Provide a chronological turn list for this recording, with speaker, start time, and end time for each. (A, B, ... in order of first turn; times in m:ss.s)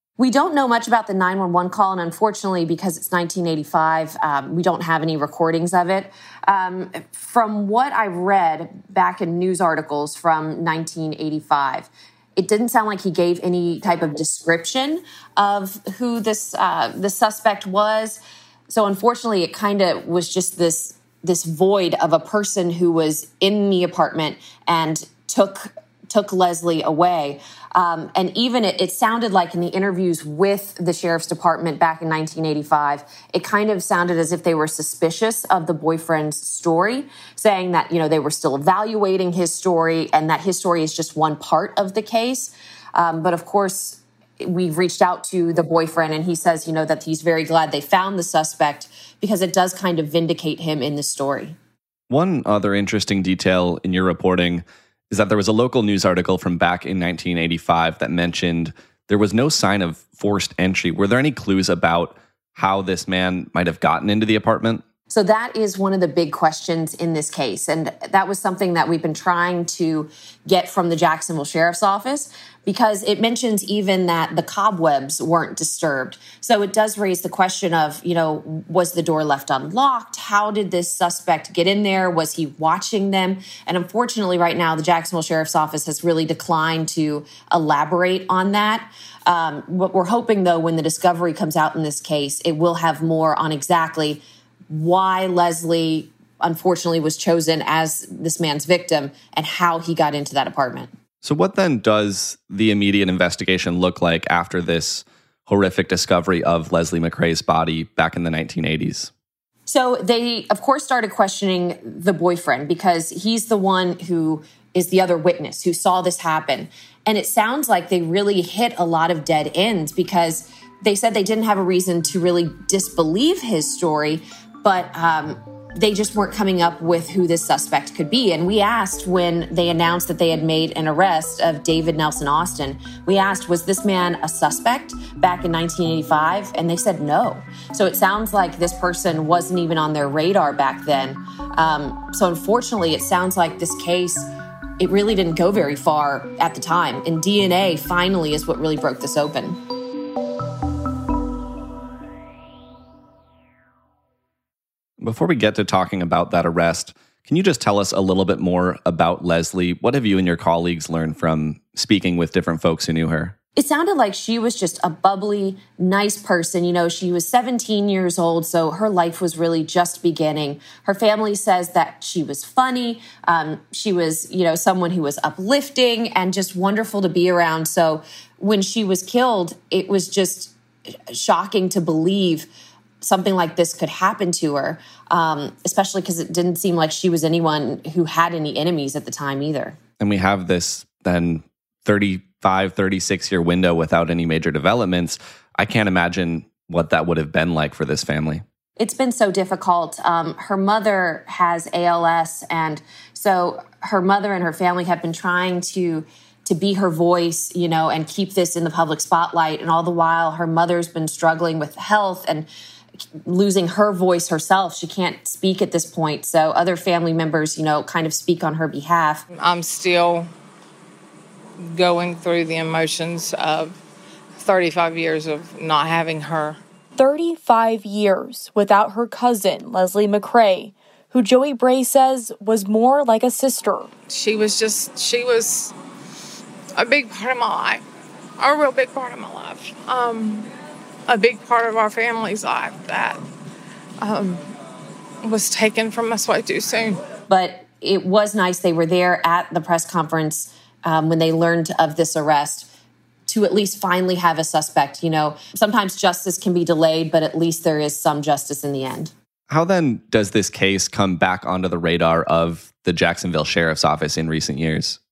0:00.2-0:51.5 A
0:52.1-1:04.8 B
1:05.1-1:40.9 A
1:41.2-1:49.1 B
1:49.7-2:24.3 A
2:24.8-2:29.6 A
2:35.0-2:43.3 B
2:43.5-3:00.5 A
3:01.1-3:02.5 A
3:03.0-3:09.8 A
3:10.0-3:18.4 B
3:18.8-3:32.5 A
3:33.2-3:39.2 A
3:39.3-3:40.3 C
3:41.6-3:43.8 C
3:44.4-3:46.6 C
3:47.0-3:53.9 D
3:54.1-3:55.7 C
3:56.8-3:57.8 C
3:58.4-4:00.5 C
4:01.1-4:03.2 C
4:04.0-4:04.5 C
4:05.2-4:07.0 C
4:07.3-4:12.7 A
4:13.3-4:19.1 A
4:19.5-4:25.0 B